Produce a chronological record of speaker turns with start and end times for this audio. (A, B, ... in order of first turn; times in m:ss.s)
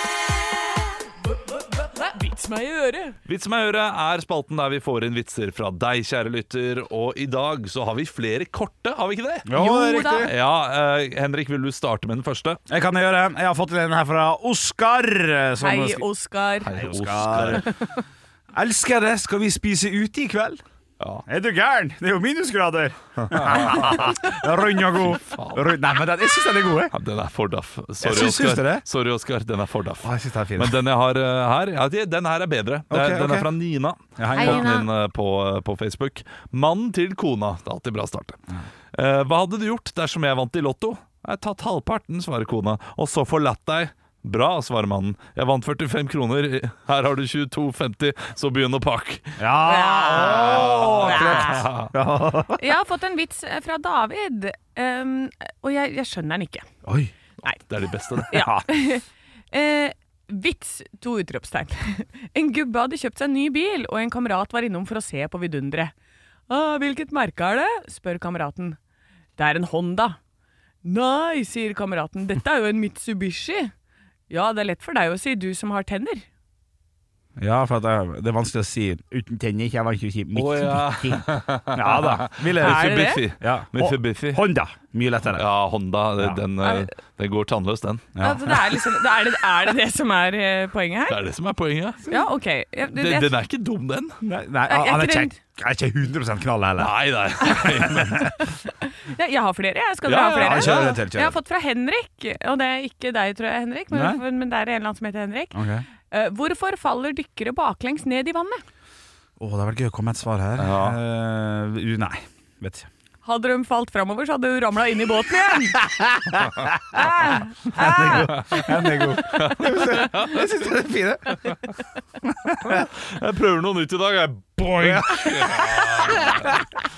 0:01.5-0:03.2 A
0:03.3-0:12.6 B
0:09.4-0:10.3 C
0:09.6-0:10.3 A
0:12.7-0:16.0 C
0:15.6-0:16.9 A
0:16.6-0:17.7 B
0:16.8-0:17.7 C
0:18.5-0:20.6 C
0:21.3-0:26.9 C
0:23.2-0:24.2 B
0:25.0-0:25.8 B
0:26.9-0:38.4 B
0:28.0-0:28.8 C
0:30.0-0:30.8 C
0:32.9-0:33.5 C
0:34.2-0:34.8 C
0:34.4-0:34.8 A
0:38.9-0:49.4 B
0:49.4-0:52.6 C
0:49.7-0:51.7 A
0:50.1-0:51.9 B
0:52.6-0:56.7 A
0:56.8-0:57.1 C
0:57.5-0:58.5 B
0:58.2-1:05.9 A
0:58.4-0:58.7 C
1:06.5-1:08.8 A
1:09.4-1:10.2 A
1:10.8-1:13.7 A
1:14.3-1:16.3 A
1:17.4-1:25.4 C
1:20.4-1:24.4 B
1:22.6-1:23.2 A
1:25.3-1:28.1 B
1:26.6-1:26.9 A
1:28.2-1:28.6 C
1:28.2-1:31.2 A
1:31.1-1:32.1 B
1:32.1-1:33.3 A
1:33.0-1:34.2 B
1:34.2-1:38.2 C
1:34.7-1:35.4 A
1:36.8-1:38.4 B
1:38.6-1:45.6 A
1:40.0-1:40.9 B
1:40.4-1:41.4 C
1:43.9-1:44.2 C
1:45.5-1:45.8 C
1:46.1-1:48.6 A
1:49.4-1:52.9 C
1:50.6-1:51.0 B
1:53.2-1:55.8 A
1:55.8-1:57.1 C
1:57.0-1:58.3 A
1:57.7-2:01.6 C
1:58.3-2:00.4 B
2:02.2-2:02.9 C
2:02.6-2:06.6 B
2:04.8-2:06.3 C